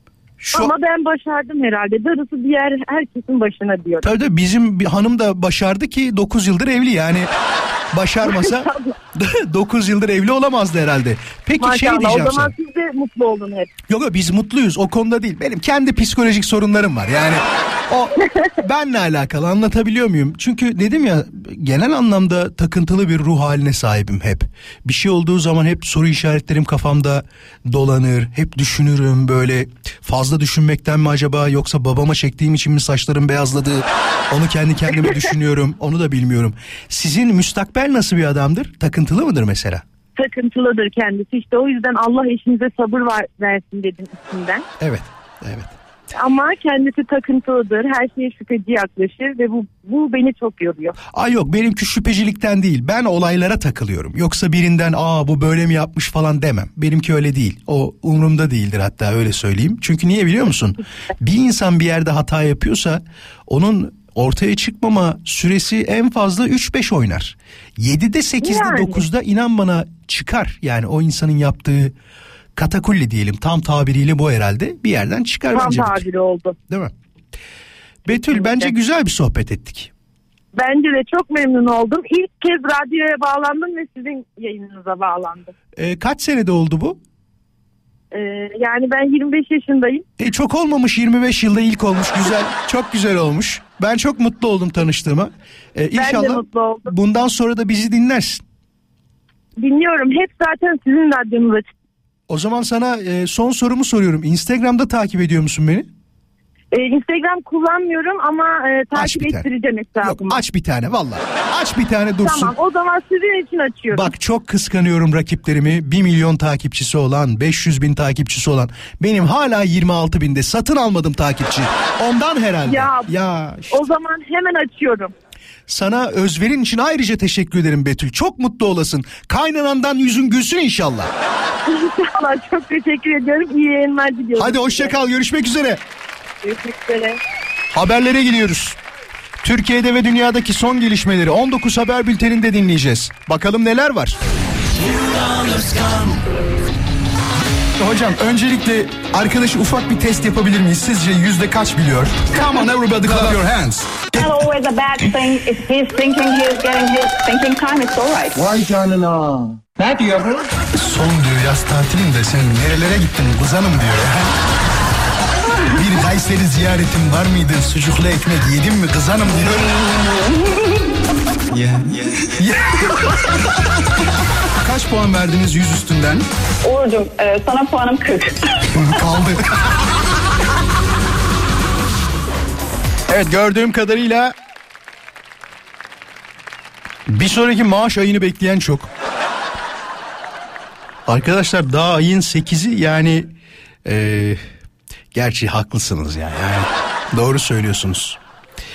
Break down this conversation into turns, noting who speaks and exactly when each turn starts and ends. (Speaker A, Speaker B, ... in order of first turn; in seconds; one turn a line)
Speaker A: 0.4-0.7
Speaker B: 0.6-4.1
Speaker A: 4.0-7.3
Speaker A: 7.9-12.5
Speaker B: 8.2-8.9
Speaker B: 11.6-13.7
Speaker A: 13.9-39.8
Speaker B: 40.2-44.6
Speaker A: 44.8-45.7
Speaker B: 46.2-50.9
Speaker A: 51.0-71.9
Speaker B: 68.4-69.0
Speaker A: 72.5-76.1
Speaker B: 75.5-76.5
Speaker A: 78.0-79.9
Speaker B: 80.6-85.5
Speaker A: 85.8-87.0
Speaker B: 88.1-90.0
Speaker A: 90.2-98.4
Speaker B: 96.0-96.9
Speaker B: 99.6-101.7
Speaker A: 102.3-105.9
Speaker B: 106.7-110.4
Speaker A: 108.9-112.5
Speaker B: 112.2-114.1
Speaker A: 113.9-123.9
Speaker B: 122.7-123.0
Speaker B: 123.7-125.1
Speaker A: 125.7-131.1
Speaker B: 131.7-134.9
Speaker A: 134.3-135.8
Speaker B: 136.4-137.2
Speaker A: 137.7-138.8
Speaker A: 139.4-144.2
Speaker A: 144.8-146.2
Speaker A: 147.8-154.4
Speaker C: 154.1-158.5
Speaker D: 158.4-160.4
Speaker A: 160.7-164.3
Speaker A: 165.7-169.8
Speaker A: 171.5-173.3
Speaker A: 174.6-176.2
Speaker C: 176.6-179.0
Speaker A: 178.7-179.6
Speaker A: 183.1-184.3
Speaker A: 187.1-188.9
Speaker A: 191.1-193.3
Speaker A: 193.8-194.4
Speaker A: 195.1-198.2